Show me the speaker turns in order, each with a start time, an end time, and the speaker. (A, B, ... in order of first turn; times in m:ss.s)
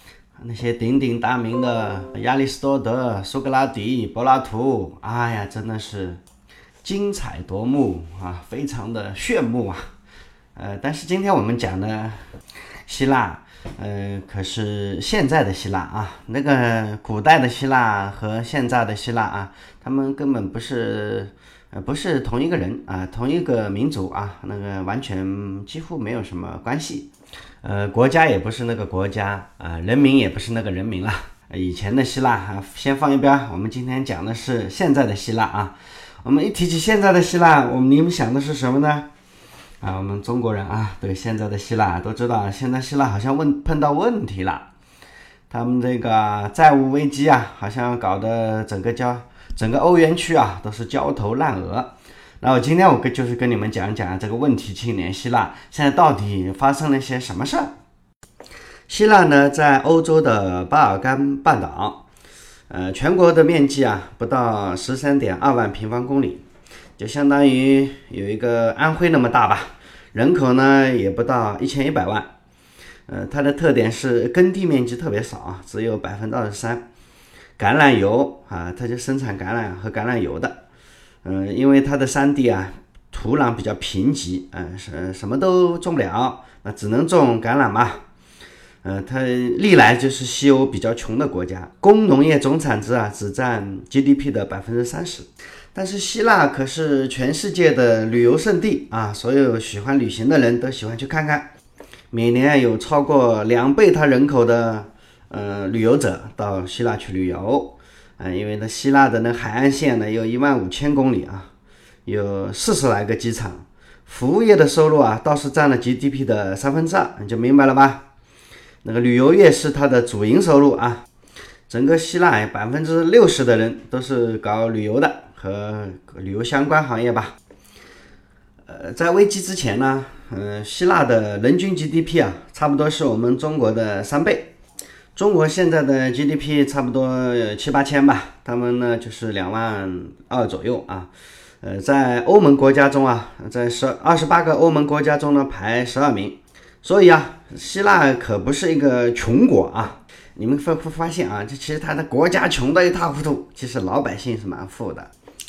0:00.4-0:06.2 A
0:06.8-0:09.8 A
0:10.6-0:12.2 A
0:12.8-0:27.1 A
0:27.6-0:39.1 A
0:39.8-0:44.7 A
0:45.5-0:57.7 A
0:58.9-1:02.0 A
1:02.7-1:06.4 A
1:07.0-1:12.3 A
1:13.1-1:16.8 A
1:17.6-1:20.6 A
1:21.2-1:28.0 A
1:28.8-1:41.5 A
1:42.1-1:51.5 A
1:52.0-1:58.0 A
1:58.8-2:01.0 A
2:01.7-2:07.3 A
2:08.7-2:14.5 A
2:15.1-2:21.1 A
2:21.6-2:35.1 A